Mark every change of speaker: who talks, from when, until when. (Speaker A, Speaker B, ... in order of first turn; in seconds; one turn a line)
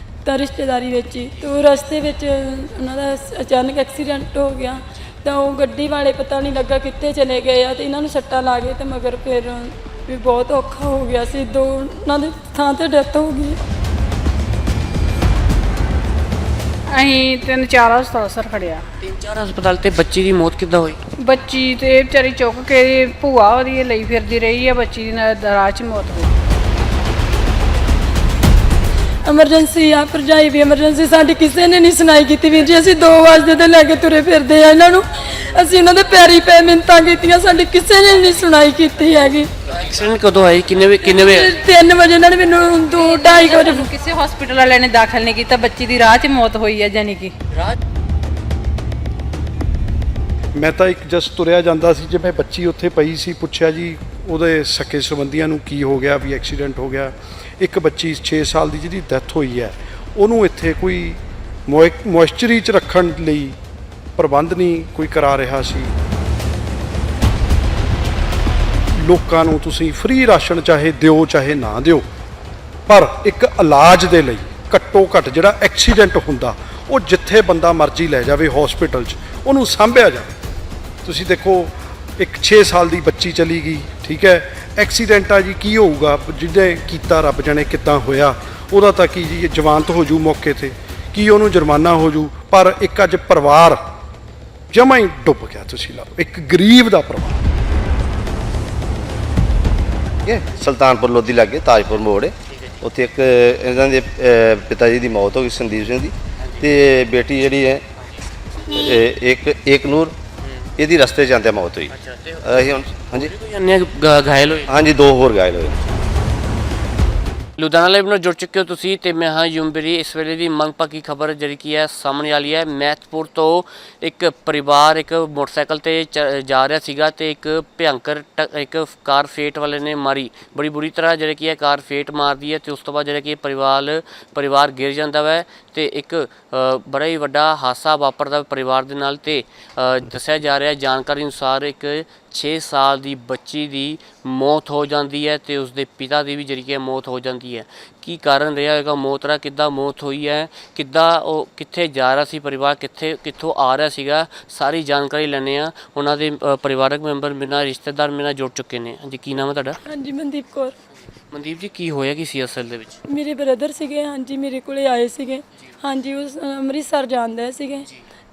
Speaker A: 0.2-13.6
Speaker B: 16.9-18.8
Speaker C: 19.0-21.0
Speaker B: 21.2-26.4
Speaker A: 29.2-39.5
Speaker C: 39.6-41.6
Speaker A: 41.0-43.9
Speaker D: 42.9-47.4
Speaker E: 50.5-63.6
Speaker E: 64.2-65.9
Speaker E: 68.9-72.0
Speaker E: 72.9-80.3
Speaker E: 81.0-93.8
Speaker E: 94.7-97.5
Speaker F: 100.2-107.8
Speaker C: 101.8-102.8
Speaker C: 106.4-106.8
Speaker C: 108.0-108.2
Speaker F: 108.7-110.2
Speaker C: 110.4-110.7
Speaker F: 110.8-113.3
Speaker C: 111.9-114.9
Speaker F: 114.7-115.8
Speaker C: 117.6-159.8
Speaker A: 159.8-160.7
Speaker C: 161.3-163.0
Speaker A: 163.1-167.9